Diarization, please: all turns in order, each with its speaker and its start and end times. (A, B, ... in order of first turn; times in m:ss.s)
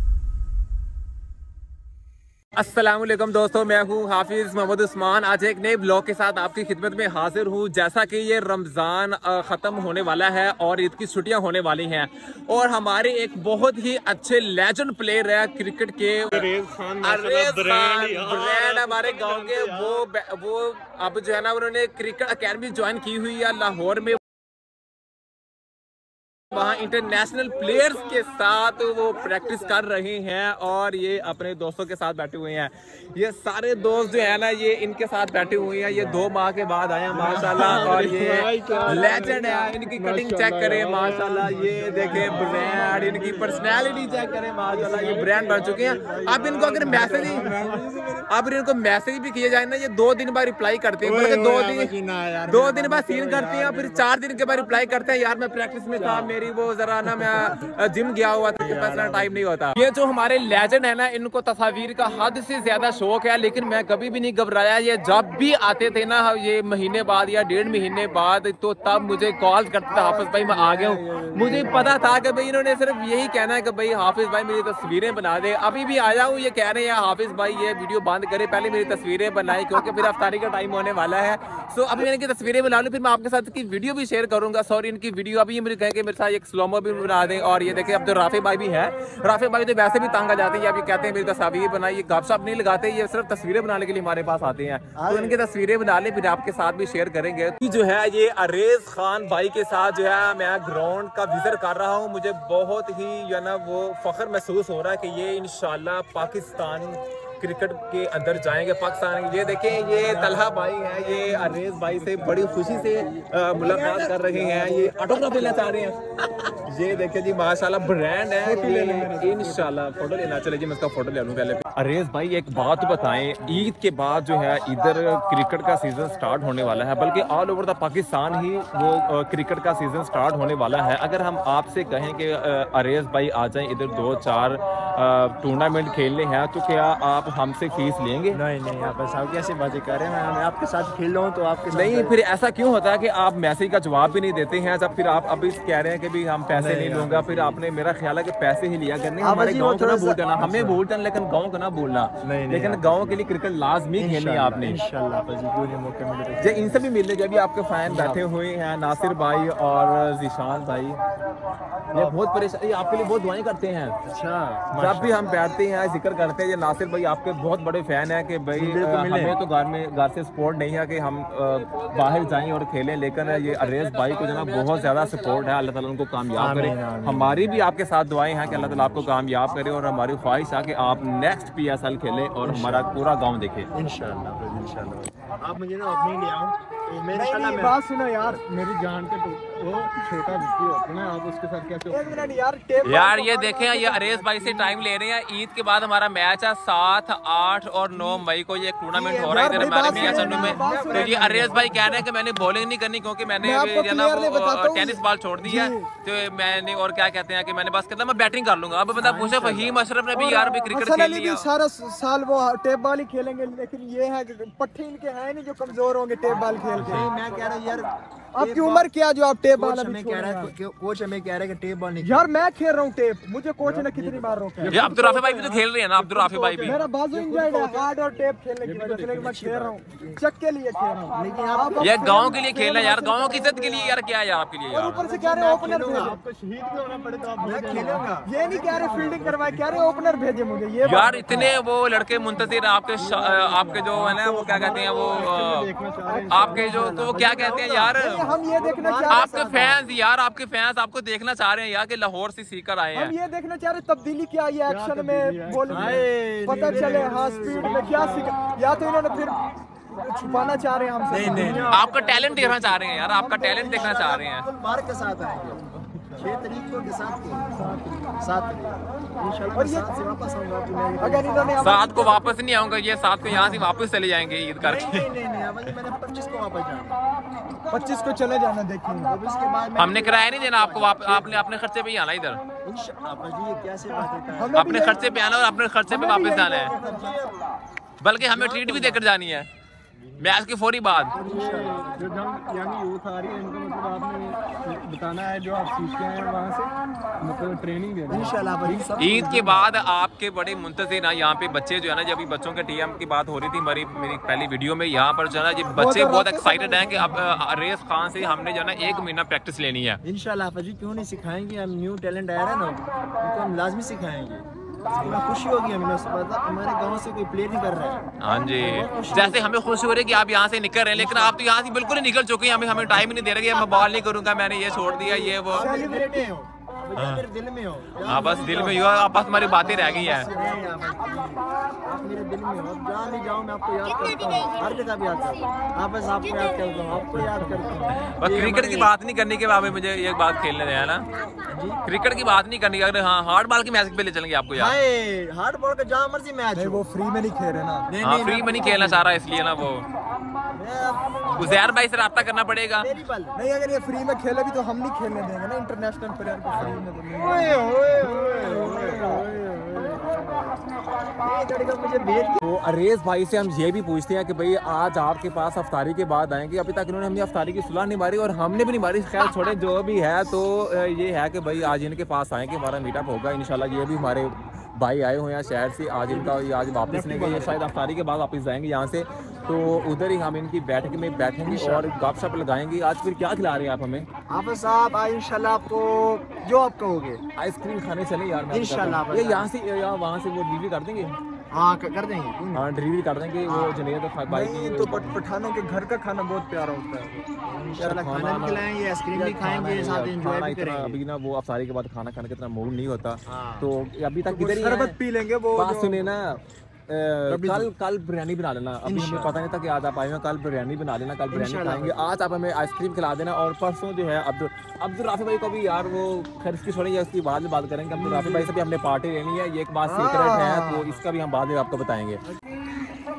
0:02.6-0:24.2 A
0:16.3-0:20.0 B
0:26.5-0:47.6 A
0:37.1-0:48.2 B
0:38.7-0:39.2 C
0:41.4-0:48.2 C
0:48.3-0:51.9 A
0:51.0-0:54.1 C
0:52.5-2:18.4 A
0:56.0-0:56.4 C
0:58.6-0:59.5 C
1:09.9-1:11.9 D
1:34.9-1:35.4 C
1:50.1-1:50.4 C
1:51.2-1:55.8 C
1:58.4-1:59.7 D
2:18.3-2:22.1 C
2:21.7-2:34.8 A
2:26.5-2:27.6 C
2:29.2-2:30.8 C
2:32.2-2:33.2 C
2:34.0-2:36.9 C
2:36.4-2:41.0 A
2:37.8-2:38.2 C
2:41.9-2:42.2 C
2:41.9-2:43.9 A
2:44.0-2:45.3 C
2:44.7-3:03.7 A
2:48.5-2:49.4 C
2:56.3-2:57.5 C
2:58.4-2:59.1 C
3:02.4-3:02.9 C
3:03.7-3:07.8 C
3:07.1-3:08.4 D
3:08.2-3:12.4 B
3:11.9-3:14.7 D
3:12.8-3:31.5 A
3:18.9-3:21.8 C
3:19.2-3:22.0 D
3:23.4-3:25.9 D
3:29.0-3:29.8 C
3:30.1-3:37.1 D
3:36.3-3:38.9 C
3:38.3-3:40.5 D
3:39.5-3:42.3 C
3:42.0-3:45.3 D
3:43.6-3:44.7 C
3:44.7-3:46.8 A
3:44.7-3:46.8 B
3:46.6-3:54.0 D
3:47.1-3:48.1 C
3:48.6-3:49.6 B
3:49.2-3:50.2 C
3:51.1-3:52.0 C
3:51.8-3:55.0 A
3:54.7-3:56.2 D
3:55.1-3:56.2 C
3:56.0-3:58.1 B
3:57.4-3:59.6 C
3:58.2-4:01.5 D
4:00.8-4:05.7 A
4:03.0-4:06.8 B
4:06.0-4:06.9 D
4:06.3-4:08.4 A
4:06.6-4:09.9 C
4:07.9-4:09.4 D
4:09.1-4:13.1 A
4:12.9-4:21.8 D
4:14.7-4:16.1 B
4:15.6-4:18.3 C
4:21.1-4:23.0 C
4:21.7-4:24.4 A
4:23.1-4:24.0 D
4:23.6-4:25.6 C
4:26.2-4:27.6 C
4:27.6-4:28.0 B
4:28.2-4:32.1 C
4:29.6-4:29.9 D
4:31.0-4:32.2 D
4:31.6-4:35.1 A
4:33.2-4:33.6 C
4:34.6-4:37.0 C
4:37.7-4:39.1 D
4:39.1-4:41.4 C
4:39.8-4:42.4 A
4:42.6-4:45.2 C
4:44.3-4:45.1 D
4:44.6-4:46.8 A
4:45.9-4:47.1 D
4:46.8-4:47.4 C
4:48.0-4:49.5 A
4:48.2-4:49.0 C
4:49.9-4:50.4 C
4:50.2-4:51.1 A
4:51.1-4:52.1 C
4:51.2-4:58.9 B
4:58.1-4:59.8 C
4:59.0-5:10.0 A
5:05.7-5:07.2 D
5:10.0-5:18.0 C
5:18.2-5:25.7 A
5:18.6-5:19.5 C
5:20.9-5:21.4 C
5:24.8-5:28.9 C
5:25.5-5:26.3 D
5:27.0-5:27.2 A
5:28.0-5:30.3 A
5:29.3-5:30.6 D
5:29.6-5:38.9 C
5:37.9-5:41.1 A
5:41.5-5:41.8 C
5:41.8-5:44.8 A
5:44.6-5:46.8 C
5:46.6-5:47.9 D
5:47.9-5:49.1 C
5:48.0-5:49.9 A
5:50.6-5:51.7 C
5:51.4-5:52.9 A
5:52.8-5:53.4 C
5:53.3-5:59.2 D
5:56.5-5:59.3 C
5:58.9-6:00.4 B
6:01.2-6:02.4 C
6:02.4-6:24.1 A
6:16.1-6:17.6 C
6:21.4-6:21.9 C
6:24.3-6:27.2 C
6:27.4-6:31.2 A
6:28.5-6:29.5 C
6:31.5-6:32.7 C
6:32.5-6:35.2 A
6:33.4-6:33.9 C
6:34.3-6:37.3 D
6:37.4-6:41.0 C
6:37.8-6:45.0 A
6:43.2-6:43.7 C
6:44.2-6:46.1 D
6:45.5-7:02.2 A
6:47.3-6:47.7 C
6:48.8-6:49.4 C
6:51.3-6:52.1 C
6:57.9-6:58.5 C
6:59.8-7:01.0 C